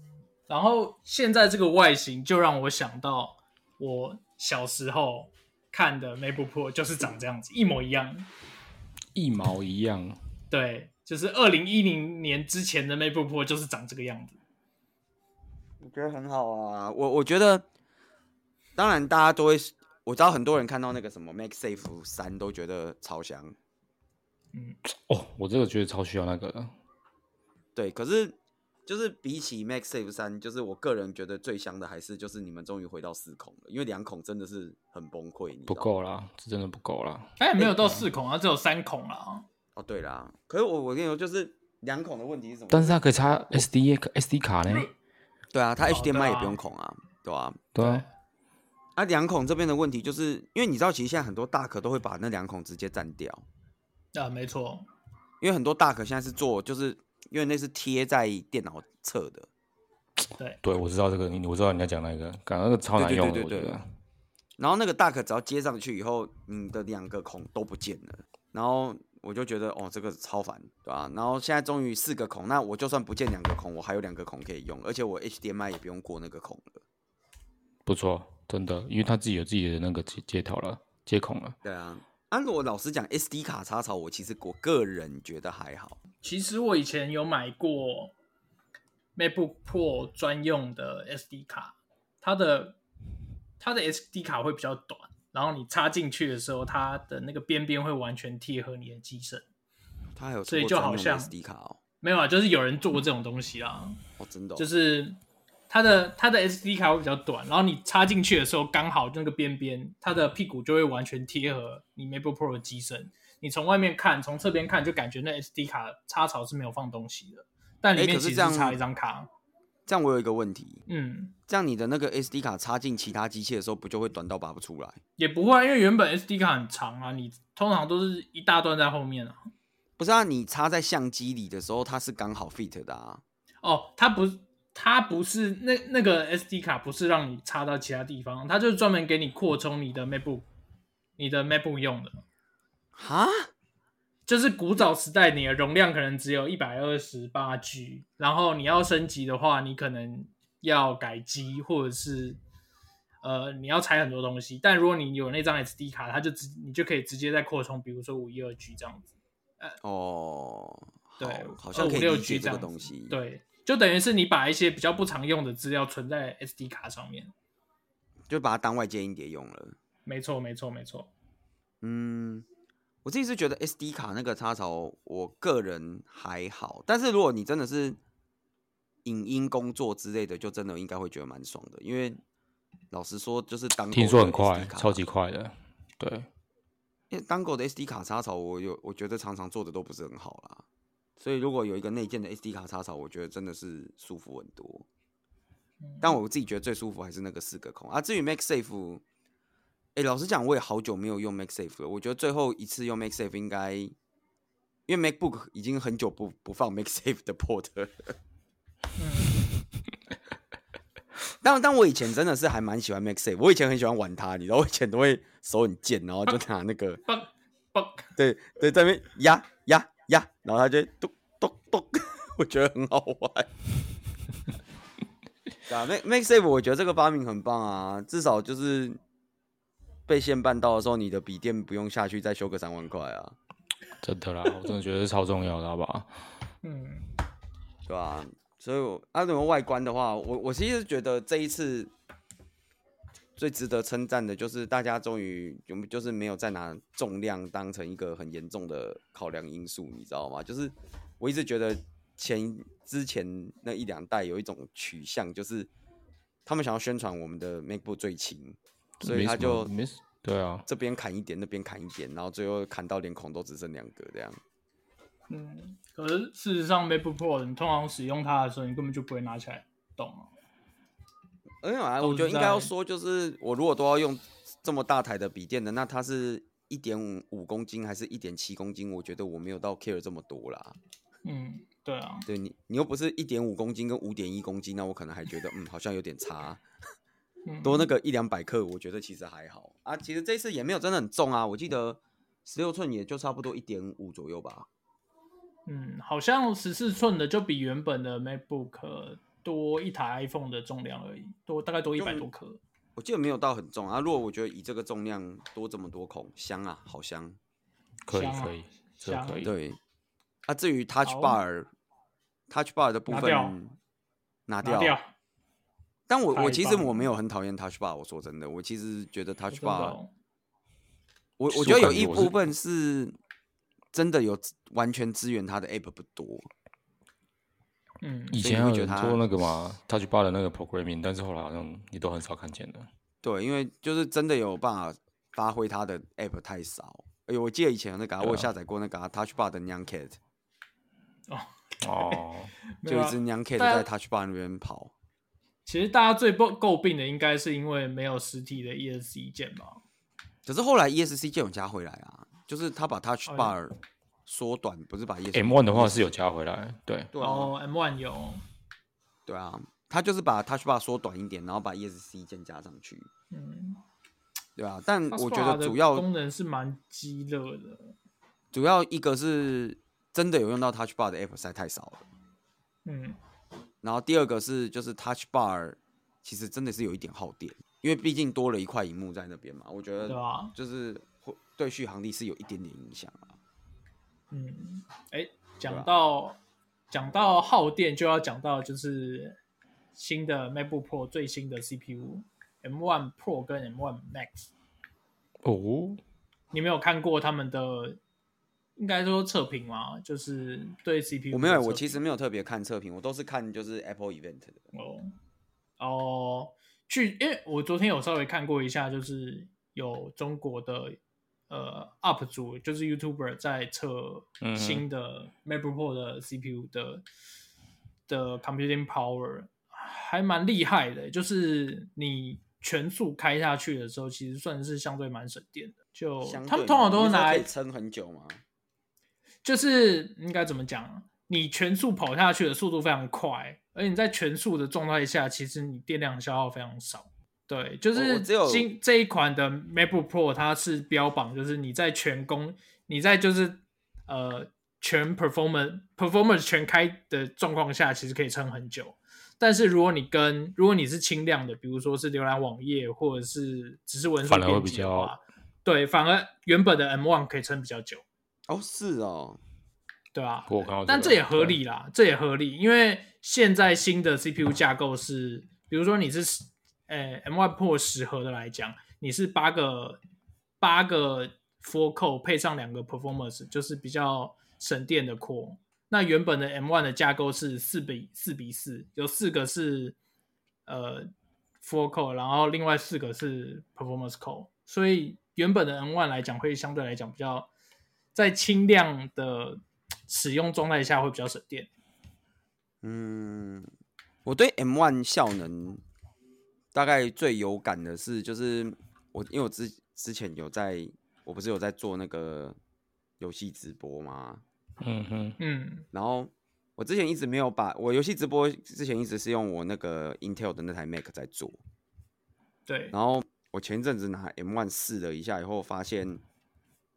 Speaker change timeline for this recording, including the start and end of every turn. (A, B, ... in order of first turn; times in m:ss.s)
0:00.5-0:08.3 A
0:09.1-0:10.2 B
0:10.5-0:14.4 A
0:15.8-0:17.6 C
0:18.8-0:23.6 C
0:24.9-0:26.7 B
0:27.7-0:35.9 C
0:35.7-0:38.0 B
0:37.4-0:39.4 A
0:39.7-0:43.7 C
0:42.7-0:44.9 B
0:45.5-0:47.6 C
0:45.9-0:46.6 A
0:47.7-0:48.0 B
0:47.8-0:48.1 A
0:49.0-0:53.4 C
0:54.1-0:54.9 A
0:55.4-0:59.5 C
1:00.6-1:03.8 B
1:03.0-1:03.8 C
1:04.6-1:16.8 C
1:17.8-1:21.6 B
1:21.6-1:26.0 C
1:26.2-1:28.1 A
1:29.2-1:32.8 A
1:33.6-1:39.4 A
1:40.2-1:41.8 C
1:40.5-1:41.3 A
1:42.0-1:44.0 A
1:44.2-1:44.7 C
1:44.6-1:45.2 A
1:45.7-1:59.3 A
1:57.9-1:58.8 C
1:59.8-2:00.8 C
2:00.9-2:01.3 A
2:01.5-2:05.0 C
2:05.2-2:09.5 A
2:10.0-2:13.2 C
2:13.6-2:20.4 A
2:21.2-2:22.2 A
2:22.9-2:23.5 C
2:24.3-2:32.4 A
2:33.2-2:39.8 A
2:39.8-2:43.2 C
2:41.2-2:47.3 A
2:48.3-2:49.8 C
2:50.0-2:51.1 A
2:51.8-2:52.4 C
2:53.0-2:58.0 C
2:59.0-3:02.2 C
3:02.9-3:05.0 C
3:03.9-3:06.3 B
3:07.1-3:10.6 C
3:11.2-3:14.9 C
3:15.8-3:16.2 A
3:16.0-3:19.0 C
3:19.9-3:23.9 C
3:24.9-3:28.1 C
3:29.0-3:29.4 A
3:31.4-3:37.0 C
3:37.1-3:38.1 A
3:38.2-3:43.5 C
3:45.7-3:49.0 C
3:50.1-3:53.4 C
3:54.0-3:56.1 B
3:56.6-3:57.1 A
3:57.8-4:01.9 C
4:03.4-4:15.7 C
4:16.4-4:19.7 C
4:19.0-4:20.6 B
4:20.7-4:24.4 C
4:25.3-4:30.3 A
4:31.6-4:40.8 C
4:32.0-4:32.7 A
4:41.2-4:42.3 A
4:42.2-4:46.6 C
4:47.4-4:47.9 A
4:47.6-4:54.7 C
4:55.7-5:02.6 A
5:02.0-5:02.3 C
5:03.0-5:07.4 C
5:08.0-5:09.5 B
5:08.1-5:09.5 A
5:09.4-5:09.8 C
5:10.5-5:11.7 C
5:11.0-5:11.4 A
5:12.5-5:13.8 C
5:13.1-5:13.6 A
5:14.5-5:15.0 C
5:14.6-5:15.1 A
5:16.1-5:20.0 C
5:16.3-5:17.1 A
5:19.5-5:20.1 A
5:21.4-5:23.2 C
5:21.5-5:22.4 B
5:23.9-5:26.5 C
5:28.0-5:28.4 A
5:28.3-5:32.9 B
5:28.4-5:29.2 C
5:33.2-5:40.2 C
5:38.2-5:38.5 B
5:41.3-5:42.2 A
5:41.8-5:42.5 B
5:42.8-5:43.8 A
5:42.8-5:44.9 C
5:45.6-5:49.8 A
5:50.4-5:56.1 C
5:53.3-5:53.5 A
5:55.3-5:57.1 B
5:57.1-5:57.5 C
5:57.2-5:58.4 A
5:59.2-6:03.1 C
6:03.3-6:03.8 A
6:04.6-6:06.1 C
6:05.1-6:07.9 A
6:08.5-6:12.0 C
6:12.8-6:13.2 A
6:13.8-6:23.4 C
6:20.0-6:20.5 A
6:24.3-6:26.4 A
6:25.7-6:25.9 C
6:26.9-6:29.4 A
6:29.9-6:34.5 A
6:35.4-6:36.0 B
6:36.5-6:38.0 A
6:38.8-6:42.0 A
6:41.3-6:44.6 C
6:44.7-6:45.1 A
6:45.8-6:51.0 A
6:51.5-6:57.0 A
6:54.4-6:54.8 B
6:58.1-7:07.5 A
7:06.2-7:08.4 C
7:09.4-7:38.0 A
7:17.9-7:18.7 C
7:34.2-7:35.1 B
7:38.5-7:39.4 C
7:40.1-7:50.0 A
7:40.5-7:41.6 B
7:50.6-8:00.0 A
8:00.7-8:01.1 A
8:01.6-8:07.5 A
8:08.1-8:11.7 A
8:12.8-8:13.7 C
8:14.2-8:15.8 C
8:16.7-8:22.6 C
8:23.2-8:24.4 C
8:24.8-8:25.4 B
8:25.4-8:25.8 A
8:25.9-8:31.6 C
8:32.7-8:32.9 A
8:32.9-8:36.2 C